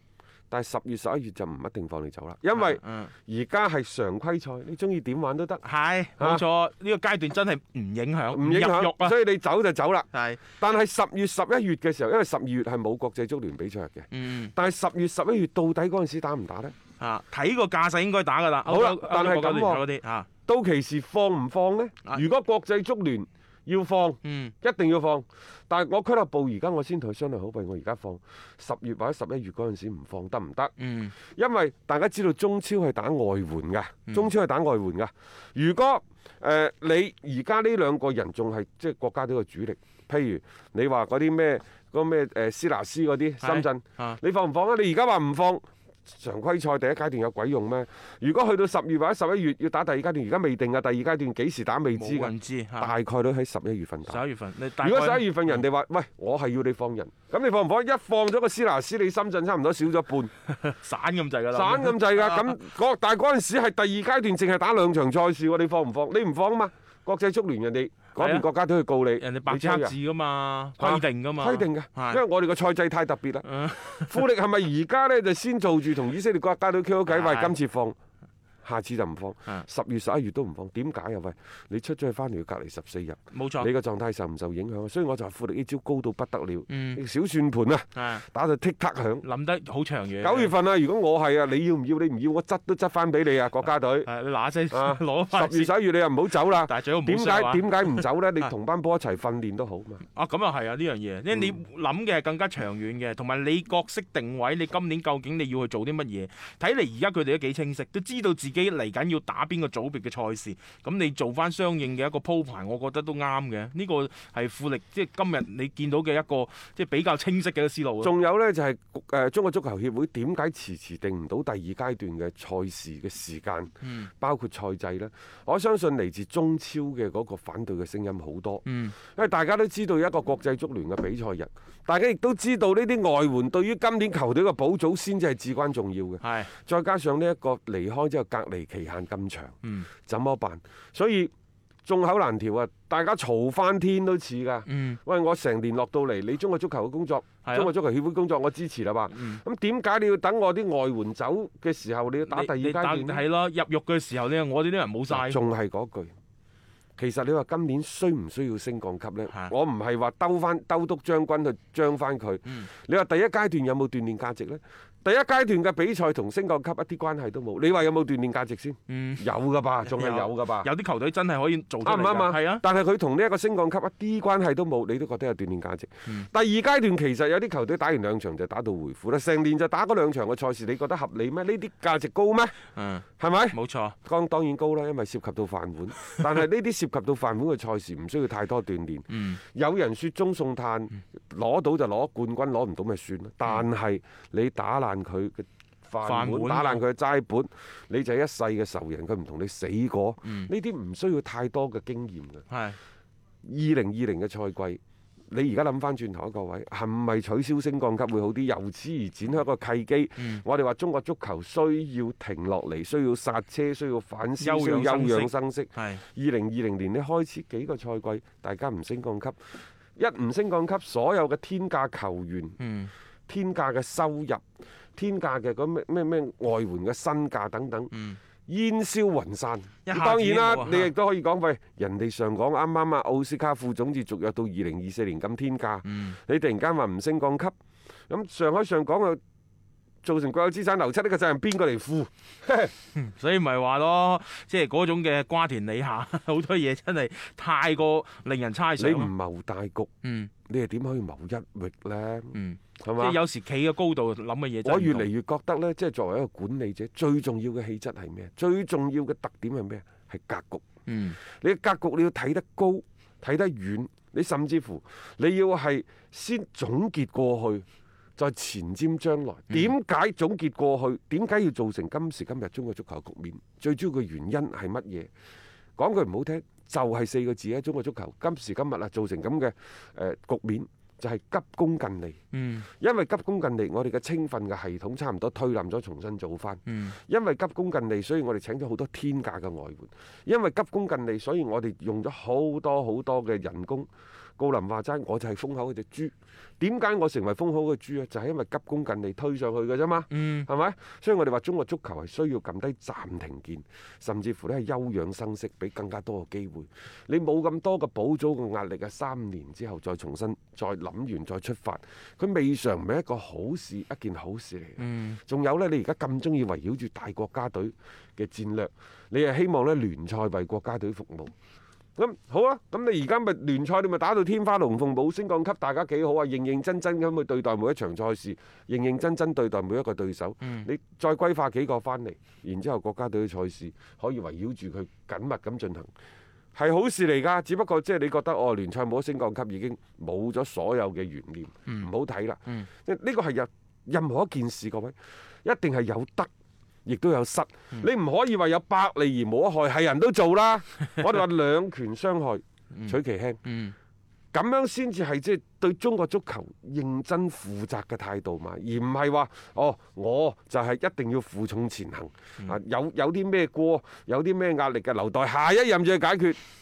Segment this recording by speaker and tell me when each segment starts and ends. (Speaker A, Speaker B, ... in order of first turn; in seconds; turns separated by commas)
Speaker A: 0.5-5.6, Speaker B: 2.5-3.1, Speaker B: 5.6-9.2, Speaker A: 6.2-6.5, Speaker A: 8.3-10.1, Speaker B: 10.1-10.4, Speaker A: 10.6-16.8, Speaker B: 14.1-14.5, Speaker B: 17.0-20.3, Speaker A: 18.6-19.9, Speaker A: 20.4-30.7, Speaker B: 24.2-24.5, Speaker B: 30.8-31.1, Speaker A: 31.3-54.2, Speaker B: 43.4-44.2, Speaker B: 52.0-52.9, Speaker B: 54.1-55.6, Speaker A: 54.8-60.3, Speaker B: 60.5-62.6, Speaker A: 61.5-70.0, Speaker B: 68.2-68.5, Speaker B: 69.2-72.2, Speaker A: 70.8-78.0, Speaker B: 73.4-74.2, Speaker B: 77.0-77.5, Speaker A: 78.6-89.2, Speaker B: 83.3-83.7, Speaker B: 86.7-87.0, Speaker B: 87.9-88.2, Speaker B: 89.2-90.5, Speaker A: 90.2-94.1, Speaker B: 94.0-95.7, Speaker A: 94.7-100.0, Speaker B: 96.4-98.5, Speaker B: 100.1-118.1, Speaker A: 118.0-139.5, Speaker B: 123.8-124.1, Speaker B: 128.6-129.0, Speaker B: 136.2-136.5, Speaker B: 139.6-139.9, Speaker A: 140.1-141.3, Speaker A: 141.9-153.2, Speaker B: 144.7-145.0, Speaker B: 147.4-147.7, Speaker B: 149.1-149.4, Speaker B: 152.3-155.4, Speaker A: 155.1-156.1, Speaker A: 157.0-170.7, Speaker B: 168.9-169.2, Speaker B: 169.8-172.6, Speaker A: 171.8-182.5, Speaker B: 182.8-183.9, Speaker A: 183.2-202.5, Speaker B: 189.1-189.4, Speaker B: 196.0-196.8, Speaker B: 200.2-200.5, Speaker B: 202.5-202.8, Speaker A: 203.4-204.8, Speaker A: 205.3-219.4, Speaker B: 210.2-210.4, Speaker B: 214.4-216.0, Speaker A: 219.9-222.6, Speaker B: 222.6-222.9, Speaker A: 223.3-224.4, Speaker A: 224.9-227.9, Speaker B: 227.9-228.2, Speaker A: 228.5-237.5, Speaker B: 229.8-230.9, Speaker B: 235.8-236.2, Speaker A: 238.1-239.2, Speaker A: 240.0-242.7, Speaker B: 242.9-249.1, Speaker A: 248.8-249.9, Speaker B: 250.0-250.3, Speaker A: 250.5-253.2, Speaker B: 252.3-255.1, Speaker A: 254.6-260.6, Speaker B: 260.9-261.2, Speaker A: 261.3-267.6, Speaker A: 268.2-275.1, Speaker B: 269.5-269.8, Speaker A: 275.8-282.2, Speaker B: 282.3-282.7, Speaker A: 282.8-321.3, Speaker B: 286.6-287.0, Speaker B: 300.1-300.5, Speaker B: 314.8-315.2, Speaker A: 322.0-335.9, Speaker B: 330.4-330.7, Speaker A: 336.5-346.3, Speaker A: 346.9-353.4, Speaker B: 352.7-353.7, Speaker A: 354.3-366.4